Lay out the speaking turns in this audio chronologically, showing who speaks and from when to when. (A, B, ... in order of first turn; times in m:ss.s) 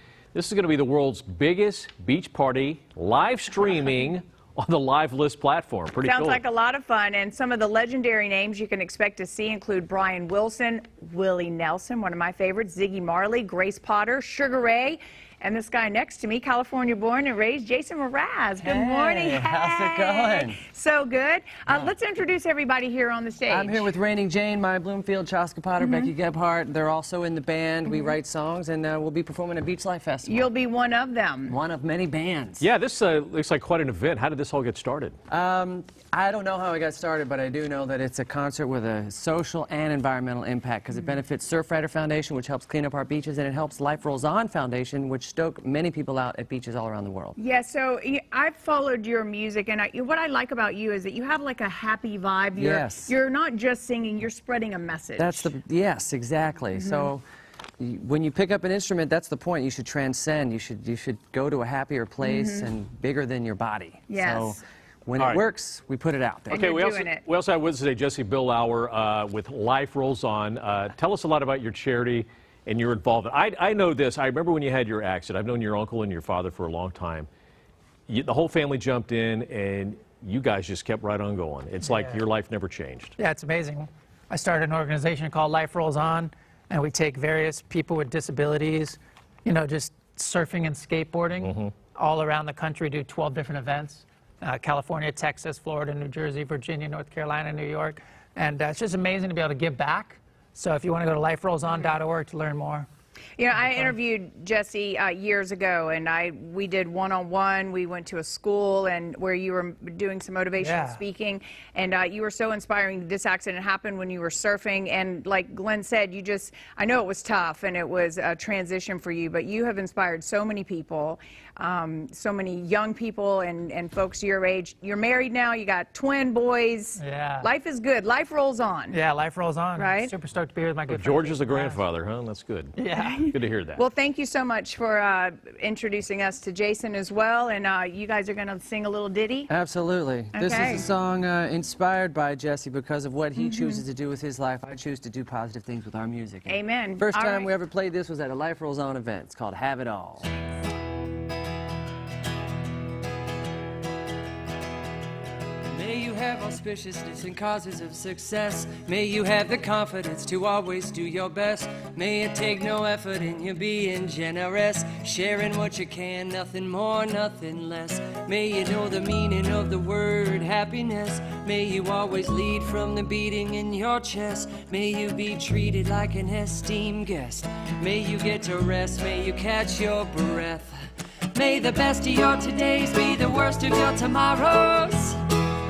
0:00.3-0:06.4 A
0:06.0-0:23.9 B
0:18.6-0:20.6 C
0:21.7-0:21.9 C
0:23.5-0:30.5 C
0:25.8-0:26.1 B
0:27.9-0:28.1 B
0:30.2-0:31.6 B
0:31.5-0:32.6 C
0:32.6-0:35.2 A
0:35.3-0:47.4 C
0:47.4-0:55.5 B
0:52.6-0:53.1 C
0:55.2-0:57.2 C
0:56.8-0:57.1 B
0:57.8-1:06.6 C
1:02.2-1:02.7 B
1:04.1-1:04.6 B
1:06.5-1:07.2 B
1:06.5-1:17.3 A
1:18.1-1:23.1 A
1:21.8-1:22.2 D
1:23.2-1:42.9 D
1:31.4-1:31.7 A
1:41.7-1:42.0 B
1:43.4-2:09.0 B
1:43.6-1:43.9 D
1:50.6-1:51.0 D
2:07.0-2:07.5 D
2:08.9-2:11.8 D
2:09.8-2:10.1 B
2:10.9-2:13.8 A
2:12.8-2:13.2 D
2:12.9-2:19.5 B
2:19.5-2:30.3 C
2:20.3-2:20.9 B
2:23.3-2:23.8 B
2:26.5-2:27.5 B
2:35.6-3:05.2 C